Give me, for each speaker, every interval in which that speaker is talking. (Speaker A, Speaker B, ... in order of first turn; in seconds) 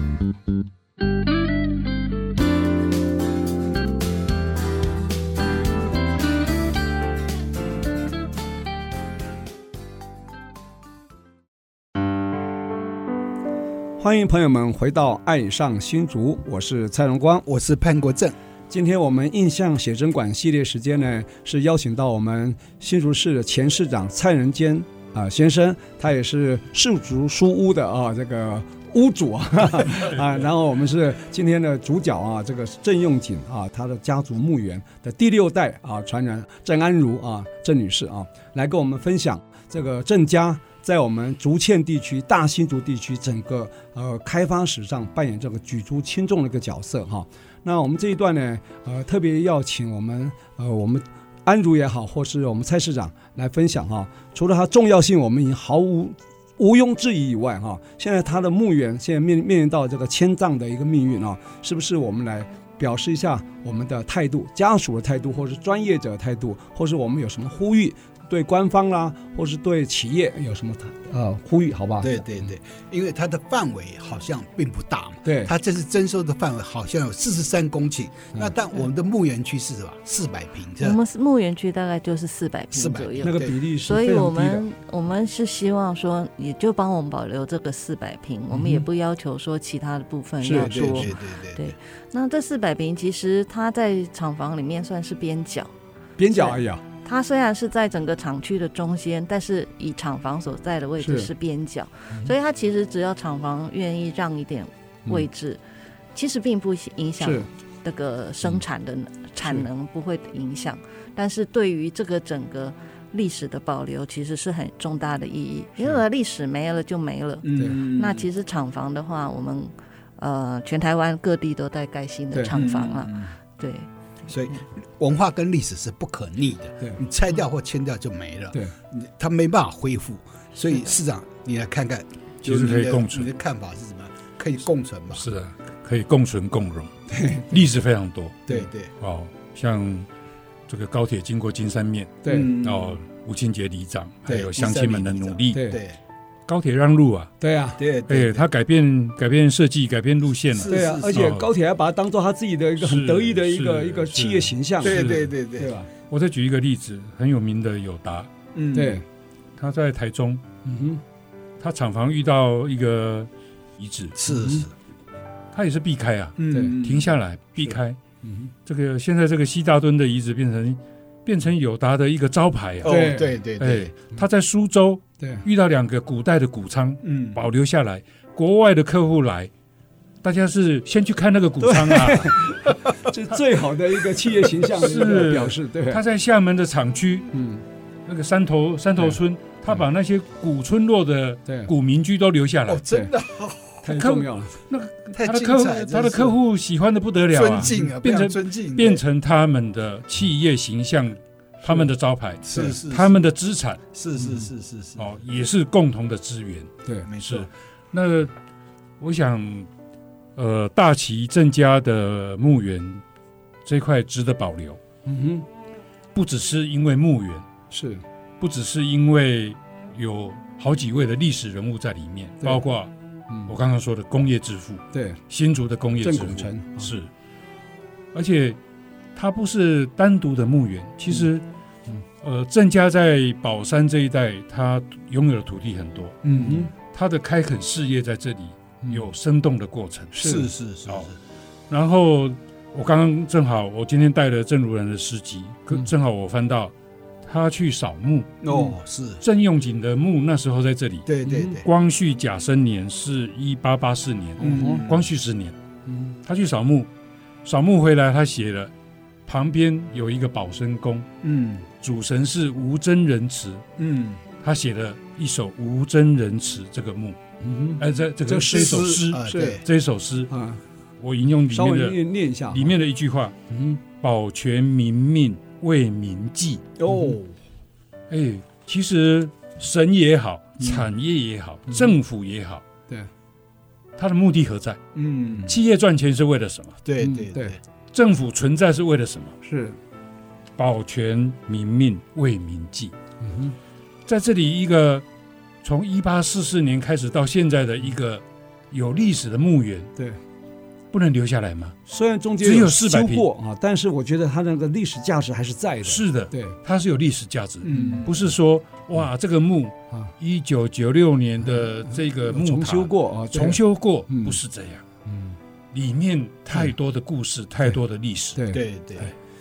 Speaker A: 14.0-17.4, 18.7-72.2, 75.2-75.5, 83.2-84.7, 88.5-88.9, 90.4-91.2, 96.2-96.8, 101.0-101.3, 107.2-107.5, 122.3-122.6, 137.1-137.6, 142.2-142.5, 145.5-145.8, 147.4-147.8, 150.7-155.9, 158.7-159.0, 160.7-161.0, 164.3-164.7, 168.2-168.5, 172.8-173.3, 175.2-175.5, 181.6-186.0, 187.3-187.6, 193.8-194.6, 197.6-197.9, 215.1-215.4, 217.7-218.0, 224.9-225.2, 226.0-226.9, 236.3-236.7, 240.2-240.5, 251.2-251.6, 254.4-254.8, 255.9-256.2, 267.4-269.6, 270.3-270.6, 271.5-272.7, 273.5-273.8, 276.9-277.2, 287.0-287.6, 289.4-289.8, 293.2-293.6, 301.9-306.6, 307.7-308.1, 311.5-314.4, 315.1-315.4, 318.4-318.6
Speaker B: 17.5-18.4, 72.0-81.0, 82.7-83.5, 90.6-91.7, 117.4-118.3, 122.5-123.3, 124.3-135.2, 138.5-138.9, 142.3-143.0, 144.3-146.0, 147.8-148.5, 150.5-151.3, 154.8-155.7, 158.6-159.0, 164.2-164.7, 166.4-167.1, 172.8-173.9, 177.0-177.4, 192.7-193.8, 195.2-196.4, 197.3-199.0, 202.4-203.2, 203.9-205.1, 207.1-207.5, 236.2-236.7, 240.1-241.2, 248.4-249.2, 251.1-251.7, 254.4-255.1, 261.2-261.7, 263.8-264.2, 268.4-269.6, 276.8-277.4, 284.9-285.6, 286.9-287.6, 307.6-308.1, 318.5-319.1
Speaker C: 80.8-95.7, 96.3-105.6, 106.2-123.9
Speaker D: 132.4-133.3, 135.1-136.9, 137.5-140.1, 140.7-145.6, 146.5-147.3, 148.1-151.5, 152.8-155.3, 156.1-158.3, 159.6-160.4, 161.6-164.2, 165.5-168.0, 168.7-179.5, 180.2-182.4, 184.6-187.3, 188.1-192.8, 193.9-203.8, 205.0-208.3, 209.0-209.7, 210.4-213.0, 213.7-214.8, 216.1-217.5, 218.4-222.9, 223.5-227.1, 228.1-228.6, 229.2-231.4, 232.2-236.2, 236.9-241.1, 241.7-246.7, 247.2-248.4, 249.2-255.6, 256.3-256.9, 257.4-258.7, 259.3-261.1, 261.8-263.6, 264.4-267.2, 267.8-270.3, 271.0-273.4, 274.0-276.6, 278.1-282.6, 284.0-284.8, 285.4-286.8, 287.9-289.4, 290.6-292.9, 294.1-295.1, 295.6-299.9, 300.9-301.8, 302.4-303.2, 305.9-314.8, 315.7-318.4